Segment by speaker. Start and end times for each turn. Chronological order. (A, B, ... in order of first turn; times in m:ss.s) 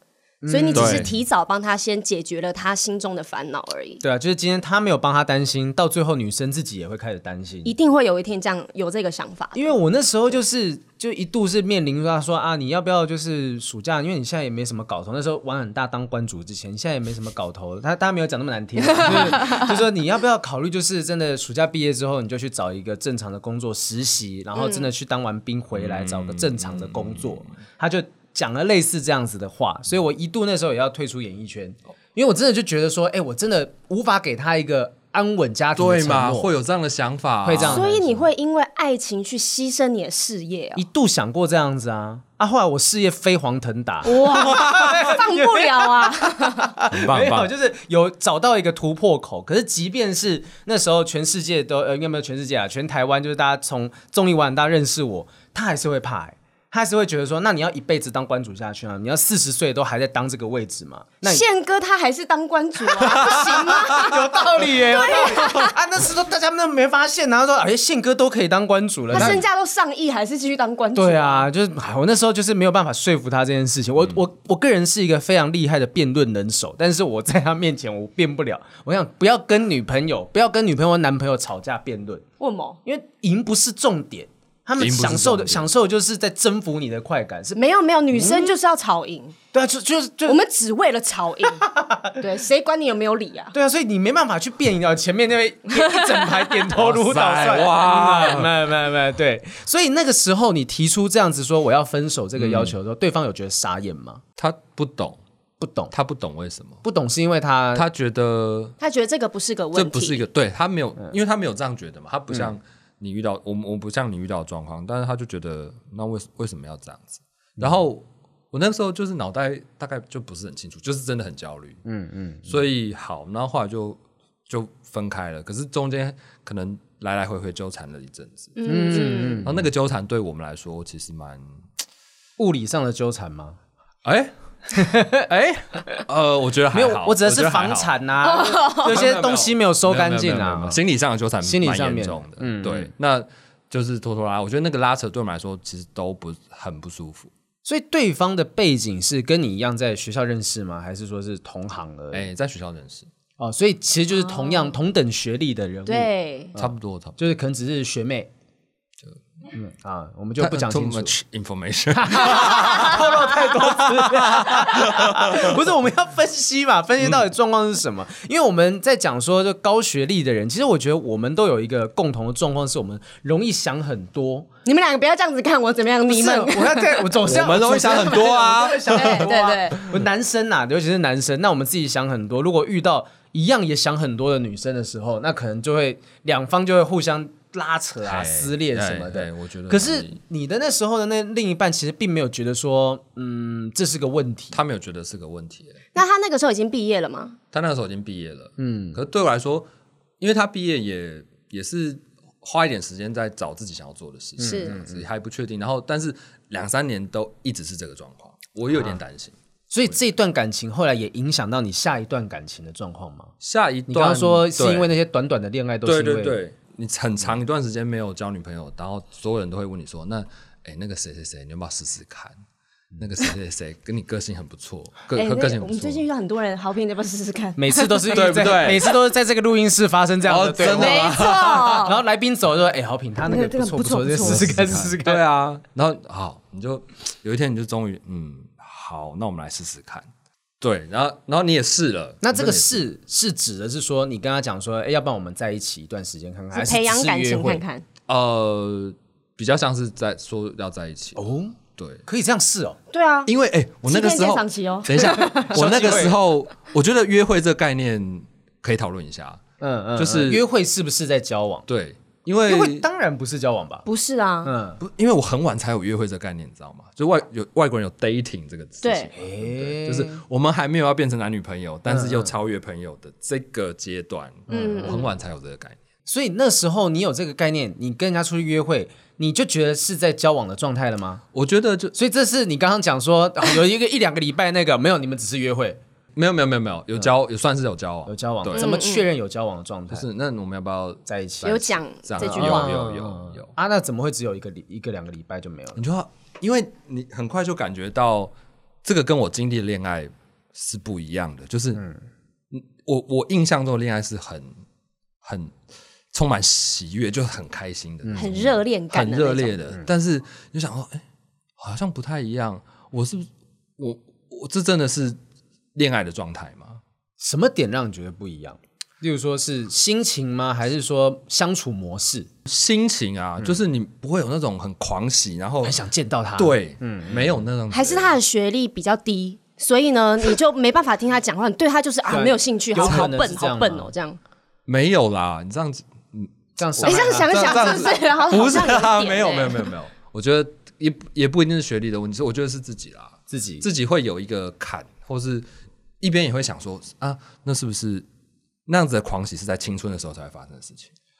0:00.4-0:01.1 A
0:00.5-0:04.0 B
0:00.7-0:01.1 C
0:04.0-0:07.7 A
0:07.6-0:09.7 B
0:09.5-0:36.5 A
0:18.8-0:19.8 B
0:24.6-0:24.9 B
0:25.7-0:27.4 C
0:35.8-0:37.9 C
0:37.4-0:38.2 A
0:37.6-0:40.8 B
0:40.8-1:01.4 A
0:44.0-0:46.7 B
0:46.9-0:47.5 C
1:01.2-1:05.8 B
1:02.9-1:09.4 A
1:09.1-1:11.5 B
1:10.9-1:22.2 A
1:22.4-1:22.8 B
1:22.8-1:27.6 A
1:24.8-1:25.7 C
1:27.6-1:29.4 B
1:28.1-1:28.5 A
1:29.5-1:30.4 A
1:30.2-1:31.6 B
1:31.6-1:32.2 A
1:32.2-1:33.5 B
1:33.5-1:44.2 A
1:35.7-1:36.6 B
1:36.7-1:38.5 C
1:42.4-1:42.7 C
1:44.4-1:45.2 C
1:45.6-1:45.9 A
1:45.9-1:46.8 C
1:46.8-1:47.8 A
1:47.7-1:48.8 C
1:48.8-1:50.2 B
1:49.7-2:01.8 C
2:01.8-2:02.5 A
2:02.4-2:11.5 C
2:08.6-2:09.5 B
2:08.6-2:09.6 A
2:12.4-2:13.6 A
2:14.0-2:17.9 C
2:14.7-2:15.3 A
2:16.7-2:20.8 A
2:18.2-2:19.0 B
2:18.8-2:27.3 C
2:21.4-2:22.9 A
2:27.6-2:32.3 A
2:32.1-2:33.1 C
2:33.4-2:38.3 A
2:34.2-2:34.8 B
2:35.8-2:36.5 B
2:36.6-2:37.2 C
2:39.5-2:41.1 A
2:40.4-2:45.6 C
2:41.9-2:54.5 A
2:54.6-2:57.2 B
2:56.1-3:14.6 A
2:57.2-2:59.3 C
2:57.9-2:59.8 B
3:08.0-3:10.2 C
3:14.5-3:15.8 C
3:15.9-3:17.4 B
3:17.5-3:19.7 C
3:18.6-3:19.0 A
3:20.2-3:29.4 C
3:24.4-3:25.0 A
3:24.4-3:24.8 B
3:29.7-3:33.3 A
3:33.4-3:34.9 C
3:33.9-3:36.4 A
3:35.8-3:42.4 C
3:43.0-3:46.0 C
3:45.1-3:48.9 B
3:47.6-3:55.2 A
3:48.1-3:48.9 C
3:50.2-3:51.9 C
3:50.6-3:52.0 B
3:53.2-3:54.7 B
3:54.2-4:00.1 C
4:00.6-4:02.8 C
4:02.2-4:07.6 A
4:06.5-4:07.8 B
4:08.1-4:11.2 C
4:11.2-4:12.8 A
4:11.8-4:12.0 C
4:12.9-4:13.3 B
4:13.3-4:19.4 C
4:13.8-4:15.6 B
4:15.3-4:16.2 A
4:19.6-4:21.6 A
4:20.0-4:20.4 C
4:21.7-4:22.8 C
4:22.4-4:23.8 A
4:23.8-4:24.5 B
4:24.4-4:24.8 A
4:24.8-4:35.8 C
4:28.8-4:29.1 B
4:29.1-4:30.2 A
4:31.9-4:32.3 A
4:34.5-4:35.0 A
4:34.5-4:35.1 B
4:36.1-4:41.2 A
4:41.3-4:41.9 C
4:41.9-4:45.8 A
4:46.1-4:48.7 C
4:48.1-4:50.0 A
4:48.5-4:49.1 B
4:49.9-4:51.0 C
4:51.1-4:55.8 A
4:51.4-4:52.8 B
4:52.0-4:53.5 C
4:55.8-4:58.3 C
4:58.8-5:01.9 C
5:02.5-5:04.5 C
5:05.2-5:05.6 C
5:06.1-5:11.0 C
5:08.0-5:08.3 A
5:08.1-5:09.6 B
5:11.6-5:15.2 C
5:15.7-5:16.8 C
5:17.2-5:22.3 A
5:22.4-5:25.8 C
5:25.6-5:27.3 A
5:26.4-5:28.2 C
5:27.7-5:34.2 B
5:32.1-5:33.9 A
5:32.8-5:33.1 C
5:34.7-5:45.5 C
5:36.6-5:37.7 A
5:36.8-5:39.7 B
5:43.3-5:43.6 A
5:46.0-5:48.0 C
5:48.7-5:50.9 C